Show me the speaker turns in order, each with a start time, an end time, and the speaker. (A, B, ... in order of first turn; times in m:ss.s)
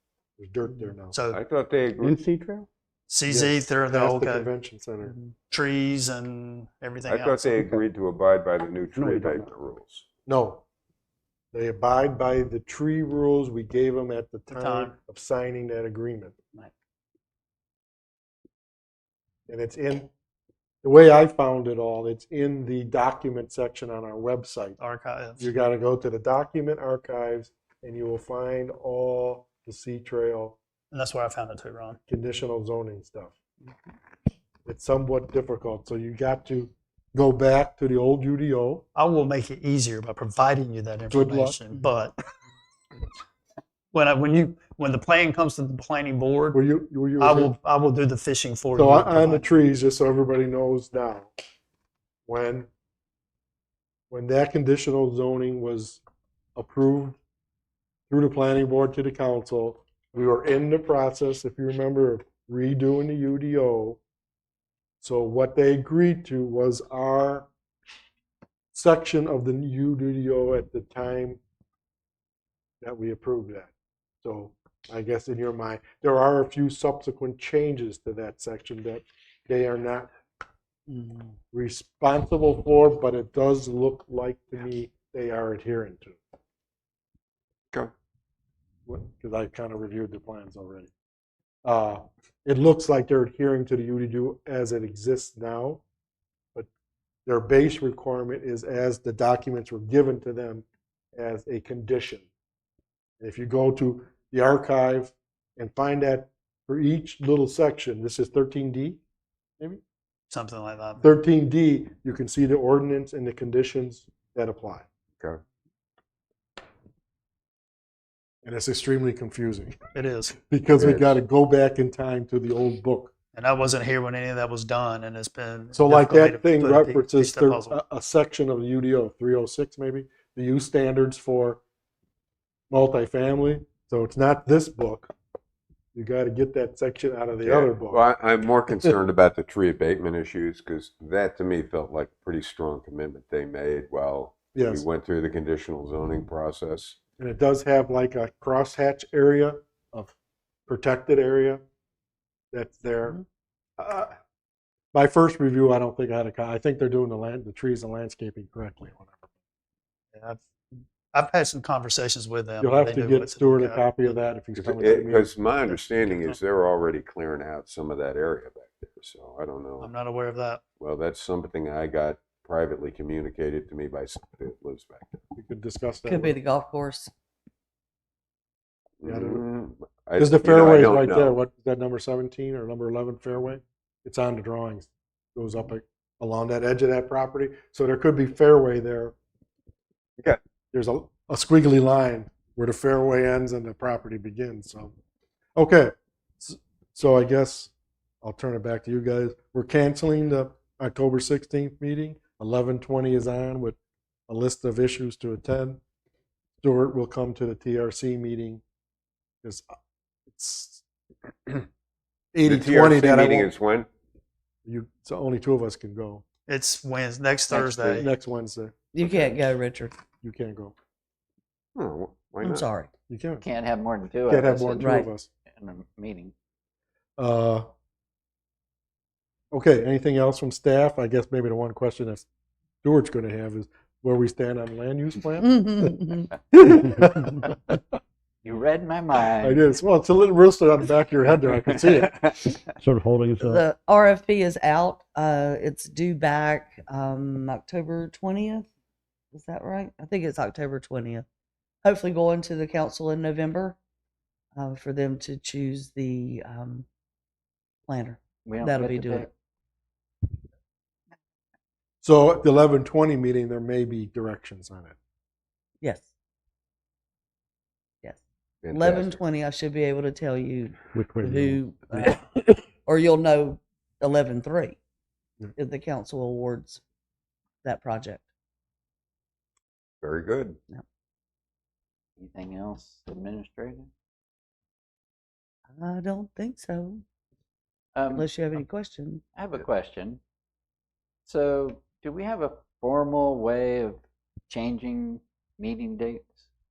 0:00.4-0:01.2 A
0:01.1-0:01.4 B
0:01.3-0:02.2 C
0:02.0-0:02.7 D
0:03.1-0:04.5 B
0:03.3-0:05.2 A
0:05.5-0:07.5 B
0:07.1-0:10.0 C
0:08.9-0:09.5 D
0:10.3-0:10.6 A
0:11.5-0:16.4 A
0:14.5-0:15.0 B
0:19.5-0:20.1 A
0:20.8-0:24.8 A
0:24.8-0:25.4 B
0:25.4-0:30.6 A
0:30.9-0:32.0 B
0:32.1-0:33.4 A
0:34.7-0:38.8 A
0:39.0-0:42.2 B
0:41.1-0:41.6 A
0:43.9-0:46.6 B
0:46.5-0:47.5 A
0:47.2-0:49.5 B
0:48.8-0:51.3 A
0:52.3-0:52.7 A
0:54.1-0:56.0 A
0:56.6-0:57.2 A
0:58.1-1:04.0 A
1:05.0-1:07.5 A
1:08.7-1:11.4 A
1:12.8-1:13.7 A
1:14.2-1:20.1 A
1:20.9-1:26.2 A
1:28.9-1:30.9 A
1:31.6-1:35.8 A
1:37.3-1:42.3 A
1:43.2-1:49.0 A
1:50.3-1:51.0 B
1:51.0-1:54.9 A
1:58.4-1:59.8 A
1:59.9-2:00.4 B
2:00.4-2:03.1 A
2:00.8-2:01.2 C
2:03.4-2:07.8 B
2:05.7-2:11.6 A
2:12.7-2:15.1 A
2:16.0-2:18.0 A
2:17.4-2:27.0 C
2:24.5-2:24.8 A
2:27.2-2:30.1 A
2:30.7-2:31.6 A
2:32.5-2:33.2 A
2:33.8-2:34.1 A
2:34.9-2:39.2 A
2:40.1-2:40.4 B
2:41.1-2:43.9 B
2:42.6-2:45.3 A
2:44.6-2:49.9 C
2:45.7-2:46.4 B
2:49.8-2:50.6 B
2:50.8-2:55.2 C
2:55.4-2:56.4 A
2:56.1-2:57.1 E
2:59.0-3:01.4 C
2:59.0-2:59.4 A
3:00.2-3:09.2 A
3:10.7-3:14.9 A
3:15.6-3:17.7 A
3:18.2-3:23.8 A
3:24.3-3:25.8 A
3:26.6-3:28.6 A
3:30.3-3:30.8 A
3:32.3-3:33.5 A
3:32.4-3:33.9 C
3:34.6-3:36.2 A
3:36.5-3:38.1 B
3:37.7-3:37.9 C
3:37.9-3:38.7 A
3:38.9-3:40.0 E
3:39.0-3:39.4 C
3:40.2-3:40.8 A
3:41.8-3:42.7 C
3:42.4-3:42.9 E
3:43.1-3:43.4 A
3:43.4-3:46.3 F
3:44.3-3:45.3 A
3:44.8-3:45.1 E
3:47.2-3:47.7 A
3:49.5-3:52.3 A
3:52.8-3:55.9 A
3:55.4-3:56.3 E
3:56.5-3:57.3 A
3:58.4-3:59.6 F
3:59.4-4:02.3 A
4:02.8-4:03.6 D
4:03.4-4:08.7 E
4:09.3-4:11.2 E
4:11.8-4:13.8 E
4:14.6-4:16.9 E
4:17.9-4:19.3 E
4:18.4-4:19.3 F
4:22.0-4:25.0 A
4:25.8-4:26.1 E
4:28.0-4:32.2 E
4:28.6-4:29.2 C
4:31.0-4:31.6 A
4:32.8-4:34.8 E
4:35.6-4:36.8 E
4:37.6-4:38.3 E
4:40.0-4:40.6 C
4:42.2-4:43.9 F
4:45.8-4:47.0 E
4:48.0-4:48.3 F
4:48.1-4:49.2 E
4:49.3-4:50.2 F
4:51.3-4:56.5 F